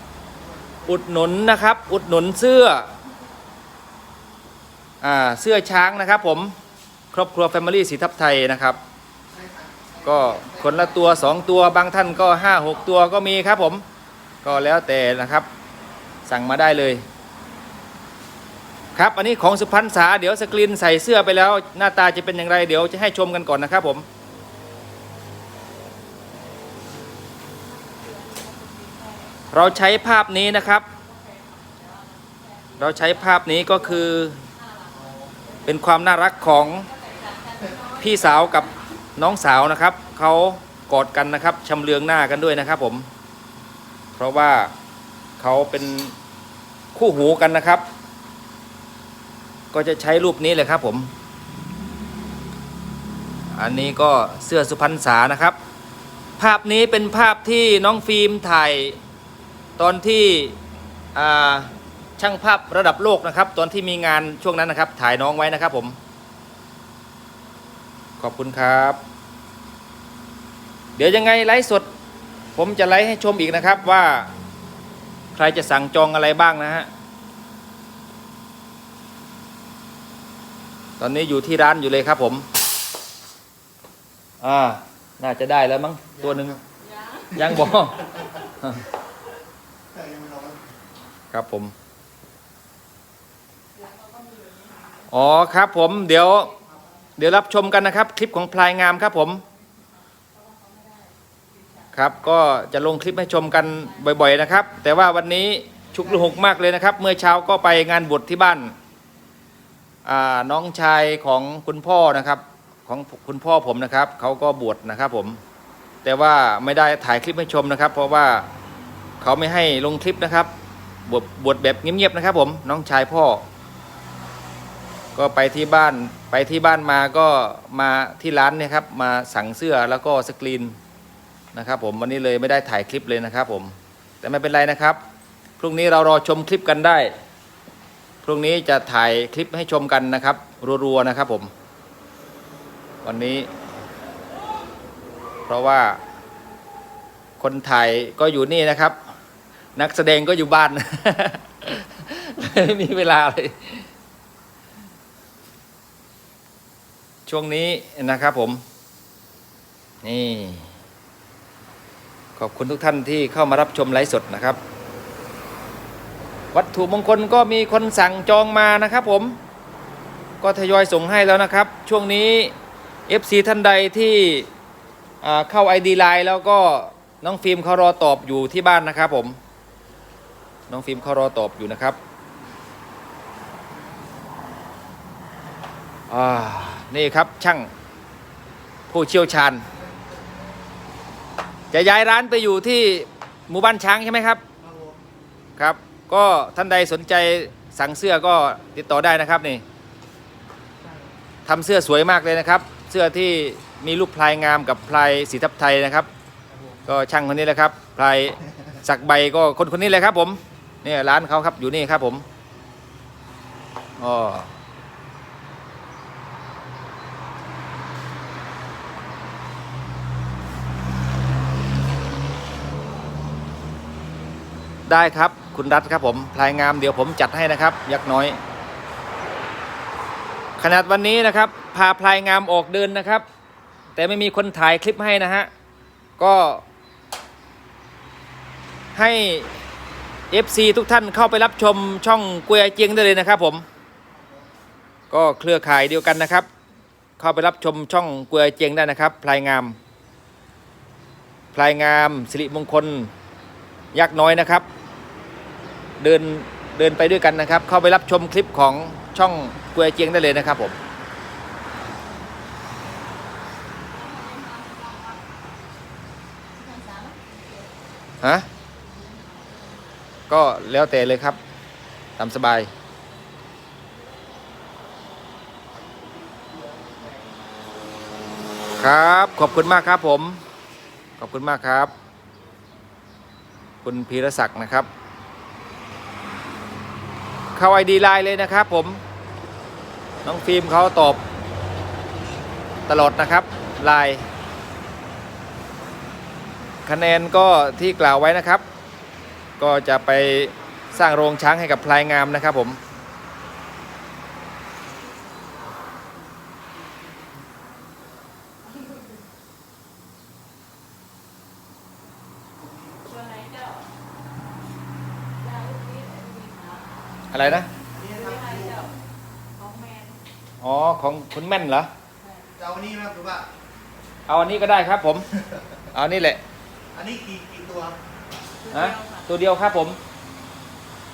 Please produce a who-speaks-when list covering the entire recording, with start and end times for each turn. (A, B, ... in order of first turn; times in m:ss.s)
0:00.3-0:00.9 A
0:00.8-0:02.9 B
0:05.0-0:06.6 B
0:07.1-0:08.8 B
0:09.3-0:11.1 A
0:10.0-0:13.8 B
0:14.4-0:15.5 B
0:16.2-0:17.0 B
0:18.9-0:24.0 B
0:27.7-0:29.7 C
0:29.5-0:30.8 B
0:30.8-0:35.6 C
0:32.8-0:34.4 B
0:34.9-0:35.3 A
0:35.6-0:36.9 B
0:36.8-0:38.7 C
0:38.0-0:43.1 B
0:44.1-0:44.7 B
0:45.4-0:46.1 B
0:46.9-0:47.8 B
0:49.7-0:51.1 B
0:53.5-0:55.6 B
0:56.4-0:59.0 B
0:59.8-1:00.6 B
1:01.1-1:06.0 B
1:08.2-1:09.0 B
1:11.0-1:11.9 B
1:12.5-1:14.3 B
1:15.3-1:16.9 B
1:21.0-1:22.5 B
1:24.4-1:26.6 B
1:26.2-1:26.6 A
1:26.8-1:27.4 C
1:27.3-1:28.8 B
1:29.9-1:30.7 A
1:31.3-1:31.7 B
1:33.7-1:35.1 C
1:35.1-1:36.5 B
1:37.2-1:39.4 B
1:40.3-1:41.9 C
1:41.9-1:48.7 B
1:50.0-1:55.4 B
1:56.0-1:58.5 B
1:59.2-2:00.5 B
2:01.1-2:03.4 B
2:05.1-2:10.8 B
2:11.5-2:15.0 B
2:15.6-2:17.1 B
2:18.2-2:21.5 B
2:23.0-2:23.5 B
2:25.5-2:26.0 B
2:27.4-2:29.0 B
2:29.8-2:33.9 B
2:37.3-2:38.6 B
2:40.0-2:40.7 B
2:42.4-2:44.6 B
2:46.5-2:49.4 B
2:50.4-2:52.5 B
2:53.1-2:54.5 B
2:55.2-2:59.4 B
3:00.7-3:02.0 B
3:06.1-3:07.7 B
3:08.9-3:09.7 B
3:11.7-3:14.4 B
3:14.6-3:15.0 A
3:15.6-3:19.6 B
3:21.4-3:26.1 B
3:26.9-3:32.2 B
3:34.0-3:34.5 B
3:44.9-3:48.4 B
3:50.6-3:53.2 B
3:54.0-3:55.5 B
3:56.2-3:56.6 B
3:58.9-3:59.5 B
4:00.3-4:03.6 B
4:05.1-4:06.5 B
4:07.2-4:09.8 B
4:11.5-4:13.1 B
4:13.9-4:14.7 B
4:16.0-4:20.8 B
4:23.9-4:25.2 C
4:26.5-4:27.7 C
4:28.9-4:29.6 C
4:30.3-4:31.4 B
4:32.2-4:32.7 B
4:38.8-4:40.4 B
4:41.2-4:41.9 B
4:43.8-4:44.9 B
4:47.6-4:49.0 B
4:50.2-4:51.2 B
4:52.9-4:54.3 B
4:56.8-4:58.6 B
4:59.6-5:02.8 B
5:12.6-5:13.0 A
5:13.0-5:13.9 C
5:15.4-5:17.2 C
5:17.3-5:17.7 B
5:17.7-5:18.9 A
5:18.1-5:19.0 C
5:19.6-5:20.2 C
5:20.6-5:21.9 B
5:22.6-5:23.5 A
5:24.3-5:25.3 B
5:25.9-5:26.4 B
5:26.9-5:28.0 A
5:28.6-5:29.3 C
5:28.7-5:30.0 B